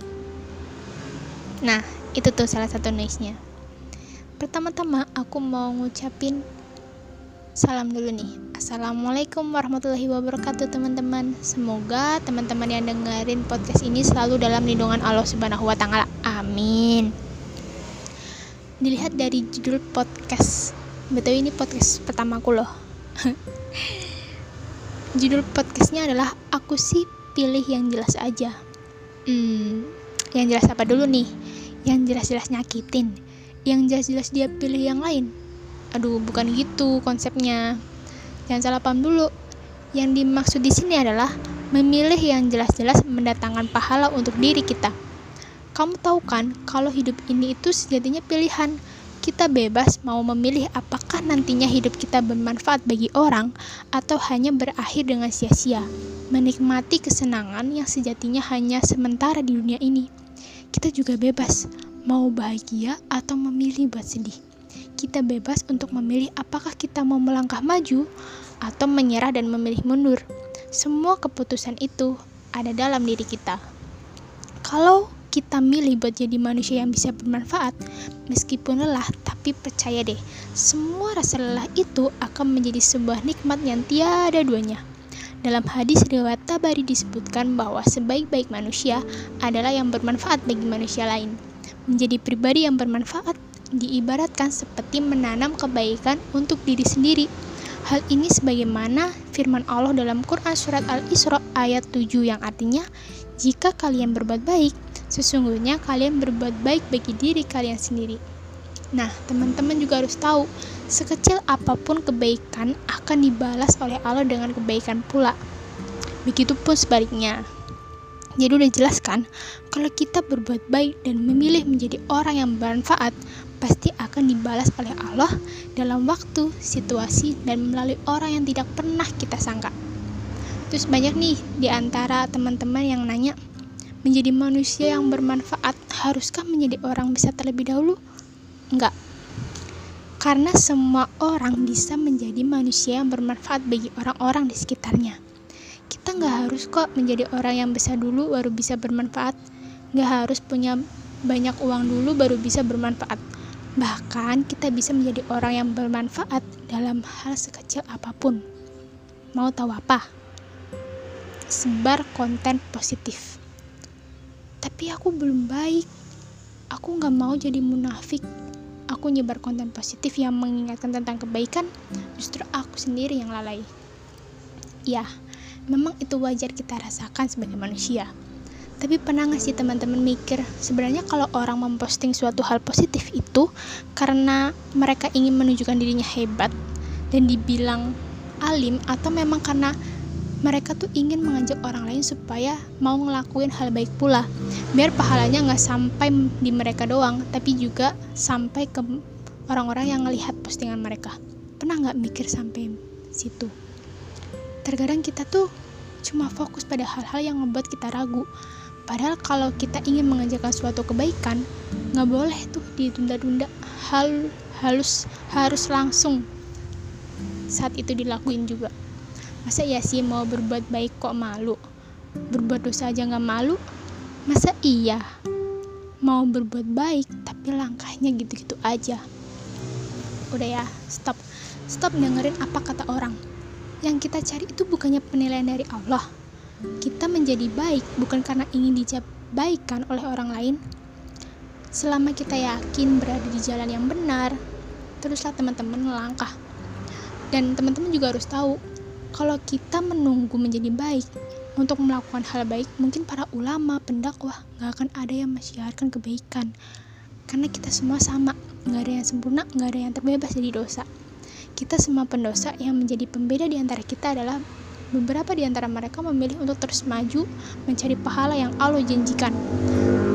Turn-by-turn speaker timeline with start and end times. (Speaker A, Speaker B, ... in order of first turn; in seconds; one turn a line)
Speaker A: 1.6-3.4
Speaker A: 4.4-6.4
Speaker A: 7.6-17.1
Speaker A: 18.8-24.2
Speaker A: 25.2-28.6
Speaker A: 29.3-31.3
Speaker A: 31.9-35.3
Speaker A: 35.9-37.6
Speaker A: 38.5-39.3
Speaker A: 40.0-44.9
Speaker A: 45.8-60.1
Speaker A: 60.7-64.4
Speaker A: 65.0-68.0
Speaker A: 68.6-70.2
Speaker A: 70.7-73.6
Speaker A: 74.6-77.8
Speaker A: 78.3-84.8
Speaker A: 85.4-97.3
Speaker A: 97.8-102.9
Speaker A: 103.4-108.2
Speaker A: 108.9-115.4
Speaker A: 116.2-117.4
Speaker A: 118.4-129.7
Speaker A: 130.7-133.4
Speaker A: 134.0-138.0
Speaker A: 140.2-145.2
Speaker A: 145.9-149.4
Speaker A: 149.9-153.2
Speaker A: 153.8-158.4
Speaker A: 159.3-160.0
Speaker A: 161.5-163.4
Speaker A: 164.6-165.9
Speaker A: 166.7-168.2
Speaker A: 168.9-173.7
Speaker A: 175.7-178.1
Speaker A: 178.8-186.6
Speaker A: 187.1-187.9
Speaker A: 188.4-189.7
Speaker A: 190.4-203.5
Speaker A: 204.6-205.5
Speaker A: 206.0-208.3
Speaker A: 208.9-216.2
Speaker A: 217.5-218.7
Speaker A: 219.4-221.6
Speaker A: 222.3-223.6
Speaker A: 224.3-225.0
Speaker A: 226.0-229.0
Speaker A: 230.3-233.2
Speaker A: 233.8-236.1
Speaker A: 236.8-240.6
Speaker A: 241.8-244.4
Speaker A: 245.0-246.3
Speaker A: 247.3-248.6
Speaker A: 249.1-256.5
Speaker A: 257.3-260.9
Speaker A: 261.6-264.4
Speaker A: 264.9-269.4